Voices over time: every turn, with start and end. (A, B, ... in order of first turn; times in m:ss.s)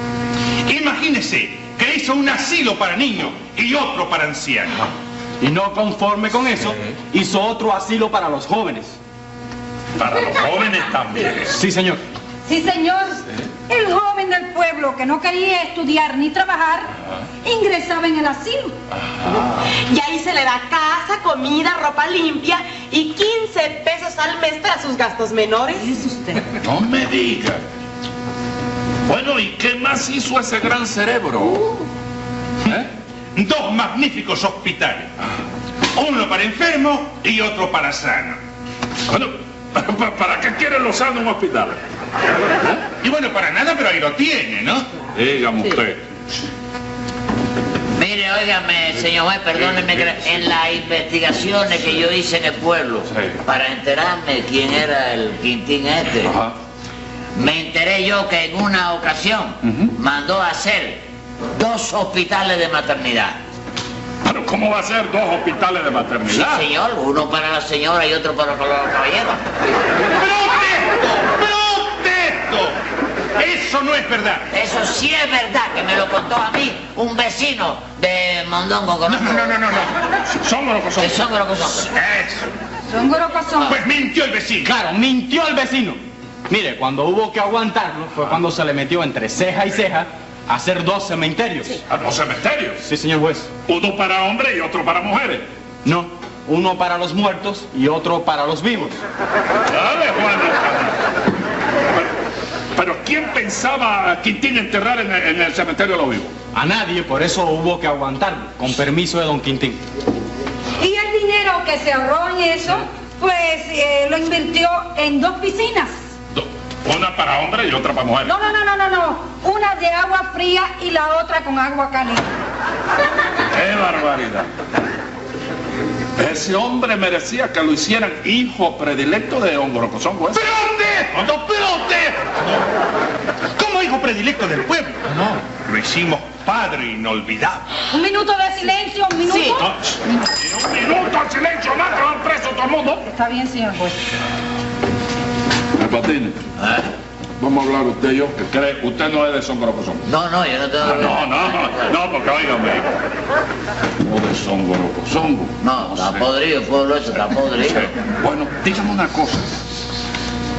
0:00.6-0:04.8 A
0:05.4-0:09.0 B
0:10.0-0:11.6 C
0:11.5-0:12.0 B
0:12.5-0:16.9 D
0:17.4-0:18.7 D
0:19.1-0:19.6 C
0:19.6-0:26.4 E
0:26.6-0:27.6 C
0:29.0-0:31.7 C
0:33.3-0:35.1 A
0:35.9-0:38.4 A
0:39.1-0:41.8 C
0:43.0-0:44.9 A
0:45.1-0:46.0 C
0:47.9-0:56.4 F
0:49.6-0:50.4 C
0:53.1-0:53.4 C
0:56.2-0:56.6 C
0:57.3-1:03.4 F
0:59.6-0:59.9 C
1:04.2-1:06.7 C
1:06.3-1:09.4 F
1:10.1-1:12.8 A
1:13.4-1:14.5 A
1:14.5-1:19.5 F
1:19.1-1:20.0 A
1:20.3-1:21.2 C
1:21.0-1:21.9 F
1:21.9-1:22.5 A
1:22.9-1:23.8 D
1:23.7-1:24.7 A
1:24.6-1:31.8 B
1:31.9-1:32.8 C
1:32.8-1:33.5 B
1:33.7-1:35.5 C
1:35.8-1:39.0 B
1:39.7-1:41.0 C
1:42.7-1:46.3 C
1:46.5-1:49.8 B
1:50.8-1:56.0 D
1:56.4-1:58.4 C
1:58.2-2:02.3 D
2:03.5-2:04.5 C
2:06.2-2:10.4 C
2:10.3-2:12.6 A
2:13.6-2:17.7 A
2:17.9-2:19.7 D
2:19.6-2:23.0 C
2:23.0-2:24.1 D
2:25.8-2:26.4 C
2:26.6-2:26.9 F
2:27.4-2:30.0 C
2:30.0-2:32.0 F
2:30.8-2:32.9 C
2:34.0-2:36.3 C
2:35.6-2:37.9 F
2:37.6-2:39.6 C